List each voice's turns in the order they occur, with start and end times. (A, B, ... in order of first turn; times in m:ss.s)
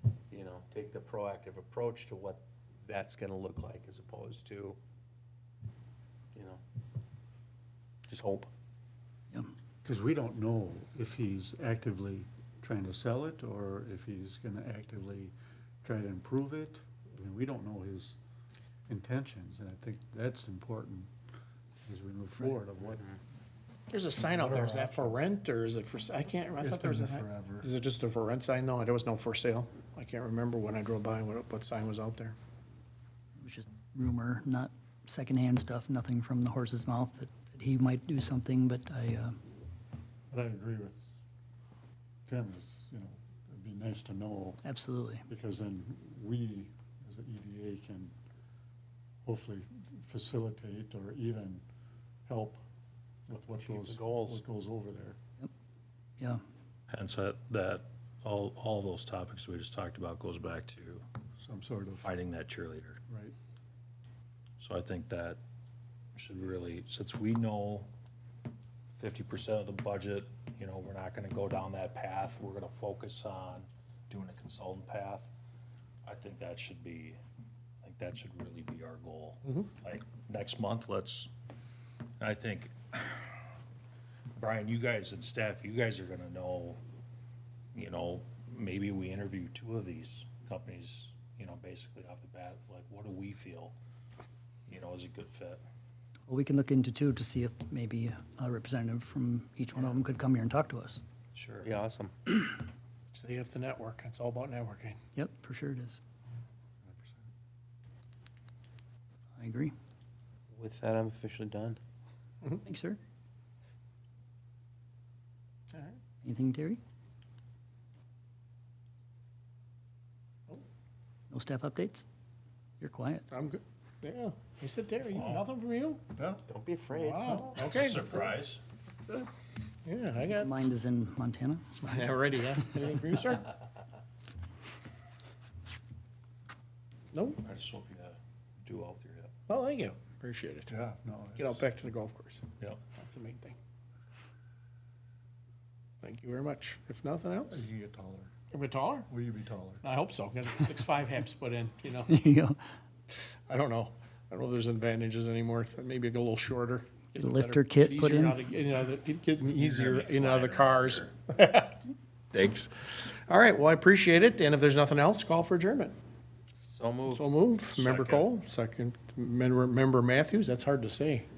0:00.3-0:04.8 A
0:06.3-0:06.6 A
0:08.1-0:08.5 A
0:09.8-0:18.2 B
0:18.9-0:21.1 B
0:21.8-0:23.0 B
0:22.8-0:23.2 A
0:23.9-0:32.3 C
0:24.2-0:25.2 B
0:26.6-0:27.7 B
0:33.4-0:39.4 D
0:40.3-0:41.1 B
0:42.3-0:44.6 B
0:44.6-0:45.2 D
0:45.3-0:48.1 B
0:49.2-0:51.6 B
0:52.3-0:52.6 B
0:53.3-0:55.2 B
0:53.6-0:54.4 A
0:56.9-1:01.0 E
1:01.4-1:02.1 B
1:02.0-1:03.0 E
1:03.1-1:03.3 B
1:04.6-1:05.4 E
1:06.2-1:07.9 E
1:09.0-1:15.3 E
1:16.0-1:17.2 E
1:17.8-1:21.3 E
1:22.2-1:23.4 E
1:24.3-1:26.8 E
1:27.7-1:33.8 E
1:34.7-1:35.6 E
1:36.3-1:41.0 D
1:41.3-1:41.7 E
1:41.6-1:42.1 A
1:43.1-1:45.0 C
1:45.1-1:46.0 D
1:46.9-1:47.2 B
1:49.4-1:49.7 D
1:50.5-1:51.8 A
1:52.6-1:53.0 D
1:55.7-1:56.0 C
1:56.2-1:56.8 D
2:01.3-2:02.0 D
2:02.8-2:03.3 D
2:03.3-2:06.0 C
2:05.1-2:05.5 E
2:06.2-2:06.4 B
2:06.4-2:07.5 A
2:07.0-2:08.3 C
2:07.5-2:08.6 E
2:09.8-2:10.6 C
2:10.2-2:11.9 D
2:11.8-2:13.5 C
2:17.1-2:17.4 C
2:17.4-2:19.3 E
2:19.5-2:20.7 C
2:20.7-2:21.7 B
2:21.4-2:22.4 C
2:23.0-2:23.6 C
2:26.0-2:27.7 C
2:27.5-2:28.3 B
2:28.5-2:29.1 C
2:29.1-2:29.8 B
2:29.8-2:32.2 C
2:32.1-2:32.6 D
2:33.5-2:41.8 C
2:37.2-2:38.4 D
2:39.4-2:41.1 E
2:42.3-2:46.0 C
2:46.5-2:47.3 A
2:47.1-2:51.2 C
2:47.7-2:48.3 E